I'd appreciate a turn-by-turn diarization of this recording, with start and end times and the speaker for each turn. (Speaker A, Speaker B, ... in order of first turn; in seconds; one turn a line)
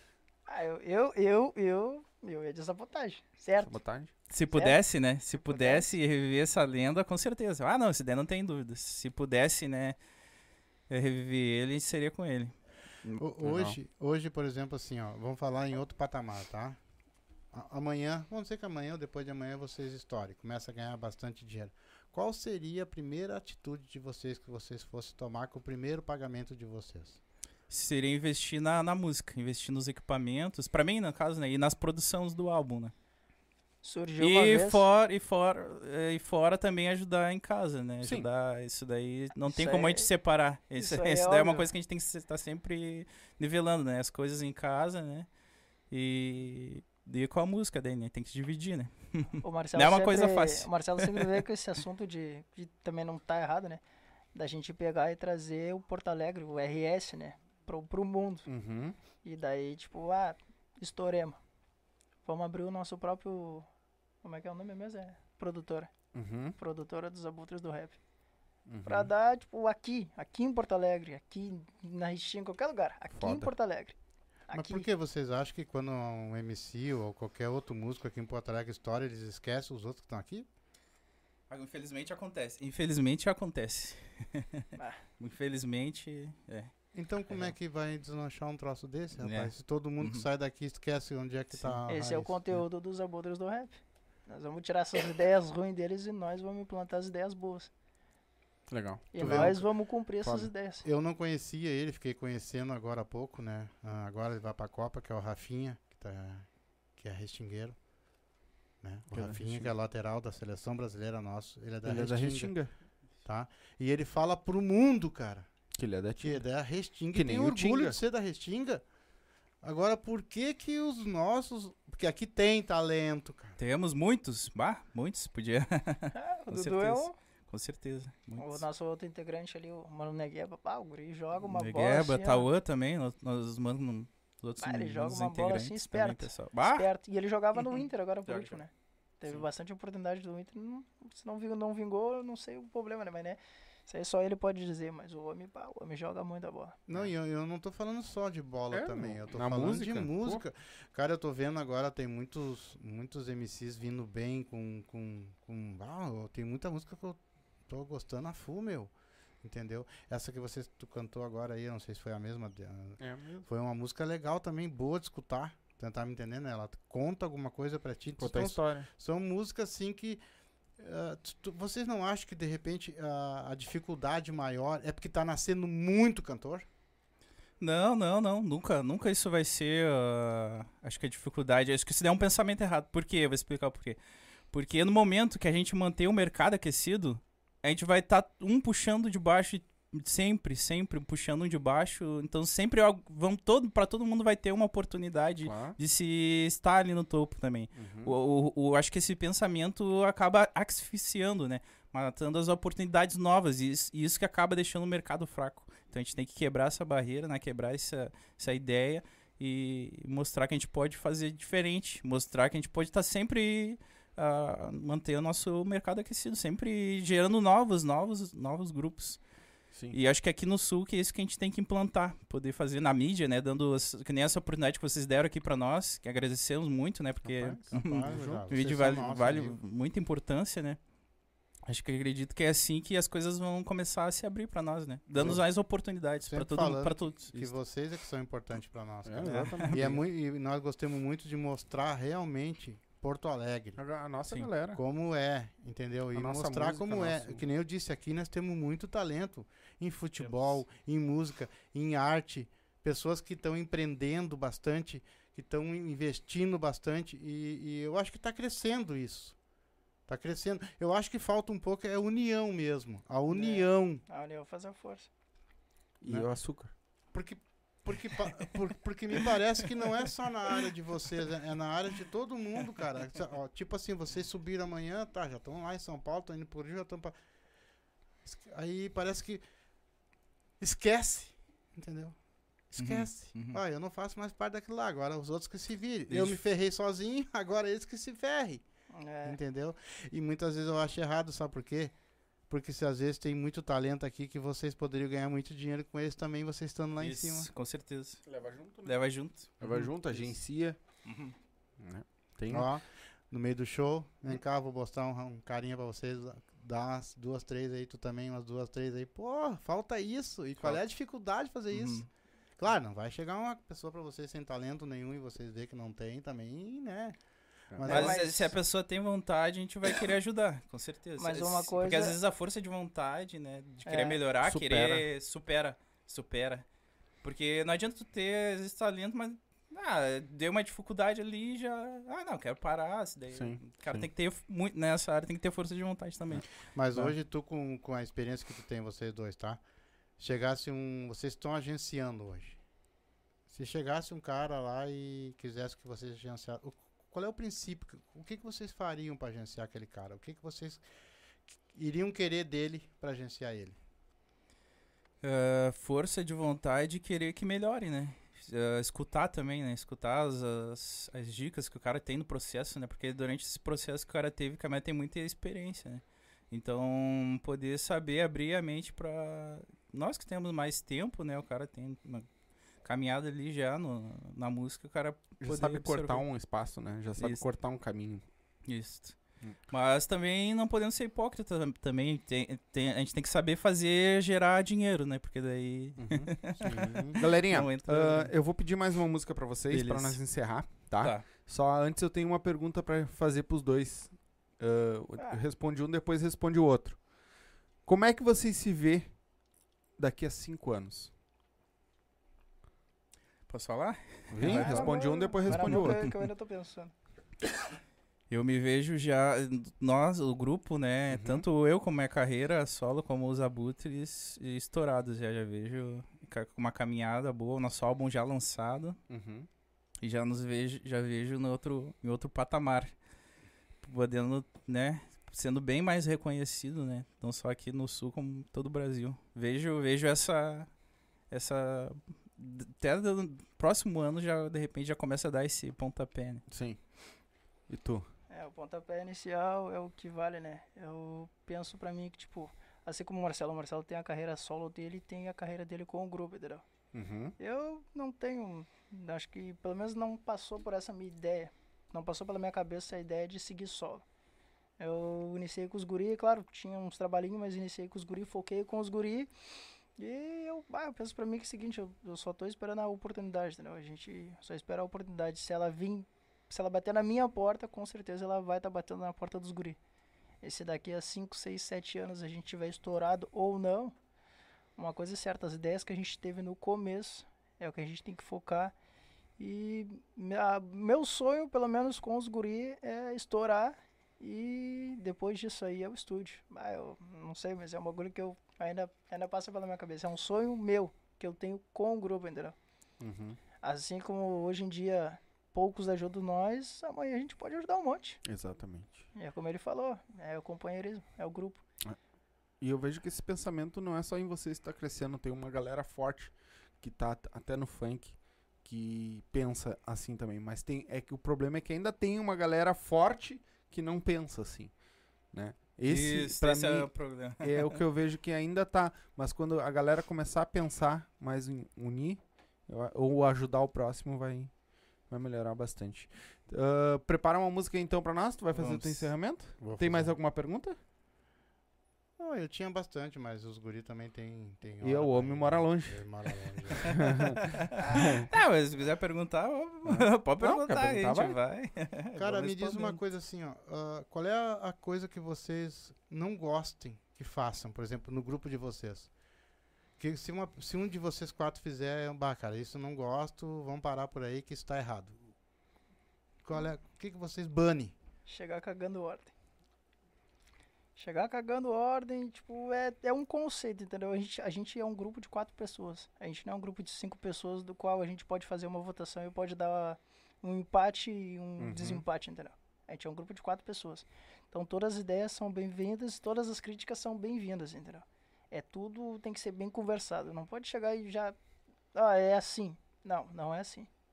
Speaker A: 0.5-3.8
Speaker B: 3.6-4.1
Speaker C: 4.3-10.0
Speaker A: 5.4-5.9
Speaker C: 10.9-12.5
Speaker D: 13.2-16.8
Speaker B: 13.4-13.8
Speaker D: 17.5-27.2
Speaker C: 27.7-32.9
Speaker A: 33.8-34.9
Speaker C: 34.2-45.3
Speaker B: 38.0-38.3
Speaker A: 39.4-40.1
Speaker A: 40.8-41.7
Speaker C: 45.9-51.3
Speaker A: 49.4-53.8
Speaker A: 54.3-58.5
Speaker B: 58.5-59.0
Speaker A: 59.2-61.4
Speaker A: 62.2-63.7
Speaker A: 64.2-65.9
Speaker B: 66.1-66.5
Speaker A: 66.6-68.0
Speaker B: 68.7-69.1
Speaker A: 68.8-74.0
Speaker B: 73.1-73.5
Speaker A: 74.5-74.9
Speaker D: 74.5-80.5
Speaker C: 81.5-84.7
Speaker C: 85.2-86.7
Speaker D: 86.9-92.3
Speaker C: 87.3-87.5
Speaker C: 89.2-90.2
Speaker C: 91.5-91.8
Speaker A: 91.9-97.7
Speaker B: 98.7-99.7
Speaker A: 99.1-100.8
Speaker D: 99.2-99.5
Speaker B: 100.2-100.5
Speaker D: 100.8-107.8
Speaker D: 108.8-112.5
Speaker B: 109.1-109.7
Speaker B: 111.8-112.7
Speaker D: 113.2-115.5
Speaker B: 115.8-116.4
Speaker D: 116.2-118.8
Speaker B: 117.1-118.0
Speaker D: 119.6-123.6
Speaker C: 123.6-128.6
Speaker A: 126.1-127.1
Speaker A: 128.4-132.5
Speaker C: 131.5-136.9
Speaker A: 134.6-146.8
Speaker C: 137.5-138.6
Speaker D: 146.9-170.2
Speaker B: 148.7-150.4
Speaker B: 163.0-163.4
Speaker B: 168.2-168.9
Speaker D: 170.8-176.7
Speaker C: 177.6-184.0
Speaker C: 184.5-219.2
Speaker B: 195.4-195.8
Speaker B: 197.7-198.2
Speaker C: 219.9-230.8
Speaker B: 227.2-228.4
Speaker D: 227.7-229.6
Speaker C: 231.7-237.6
Speaker B: 235.1-235.4
Speaker D: 235.2-235.4
Speaker D: 236.2-243.8
Speaker B: 239.0-240.0
Speaker C: 239.2-239.7
Speaker B: 243.8-244.8
Speaker D: 244.7-259.4
Speaker B: 246.1-247.4
Speaker C: 250.2-250.6
Speaker D: 260.1-264.0
Speaker A: 263.3-265.1
Speaker B: 266.0-266.7
Speaker D: 267.1-277.1
Speaker D: 278.2-279.4
Speaker D: 280.6-282.2
Speaker D: 282.7-288.6
Speaker C: 282.8-283.6
Speaker C: 286.1-286.4
Speaker A: 288.9-289.4
Speaker D: 289.2-291.9
Speaker D: 292.5-297.5
Speaker C: 297.0-298.2
Speaker B: 298.2-298.9
Speaker C: 298.8-299.9
Speaker B: 299.6-300.8
Speaker C: 301.0-301.3
Speaker B: 301.8-302.7
Speaker D: 302.5-312.1
Speaker C: 311.7-312.1
Speaker D: 312.6-317.1
Speaker B: 317.7-318.0
Speaker D: 317.7-318.2
Speaker A: 317.8-318.5
Speaker C: 317.9-326.6
Speaker A: 321.2-322.2
Speaker A: 323.8-324.2
Speaker B: 324.4-325.1
Speaker C: 327.2-337.1
Speaker B: 333.3-334.1
Speaker D: 336.7-339.6
Speaker D: 340.2-342.6
Speaker D: 343.5-350.8
Speaker D: 351.7-353.8
Speaker C: 355.2-372.3
Speaker C: 372.8-376.2
Speaker B: 375.4-378.2
Speaker C: 377.2-377.4
Speaker C: 378.6-379.2
Speaker C: 379.7-388.3
Speaker B: 386.0-397.0
Speaker D: 386.6-387.2
Speaker C: 389.7-390.2
Speaker C: 391.0-391.2
Speaker B: 397.8-399.1
Speaker B: 400.0-401.1
Speaker C: 403.5-404.9
Speaker B: 404.3-406.0
Speaker A: 404.4-406.9
Speaker C: 405.4-406.1
Speaker C: 408.3-419.0
Speaker B: 411.1-411.5
Speaker B: 419.1-419.5
Speaker C: 420.0-422.9
Speaker C: 423.8-430.7
Speaker C: 431.3-436.4
Speaker B: 436.5-436.8
Speaker B: 437.7-438.1
Speaker A: 438.3-446.6
Speaker B: 446.9-447.3
Speaker A: 447.4-454.0
Speaker A: 454.8-459.3
Speaker A: 460.0-469.8
Speaker A: 470.4-473.9
Speaker A: 474.8-478.7
Speaker A: 479.4-492.6
Speaker B: 493.0-493.4
Speaker A: 493.6-498.2
Speaker B: 498.2-499.1
Speaker A: 499.1-501.6
Speaker B: 502.6-514.7
Speaker B: 515.3-524.5
Speaker C: 515.8-517.8
Speaker B: 525.1-530.8
Speaker D: 528.6-529.0
Speaker D: 529.6-530.1
Speaker D: 532.2-537.3
Speaker B: 534.8-536.0
Speaker B: 536.7-538.3
Speaker C: 537.4-543.0
Speaker B: 539.8-541.4
Speaker D: 542.1-549.1
Speaker D: 550.0-555.3
Speaker D: 556.4-557.9
Speaker A: 558.2-559.3
Speaker A: 561.0-581.4
Speaker B: 571.6-572.0
Speaker A: 581.9-583.9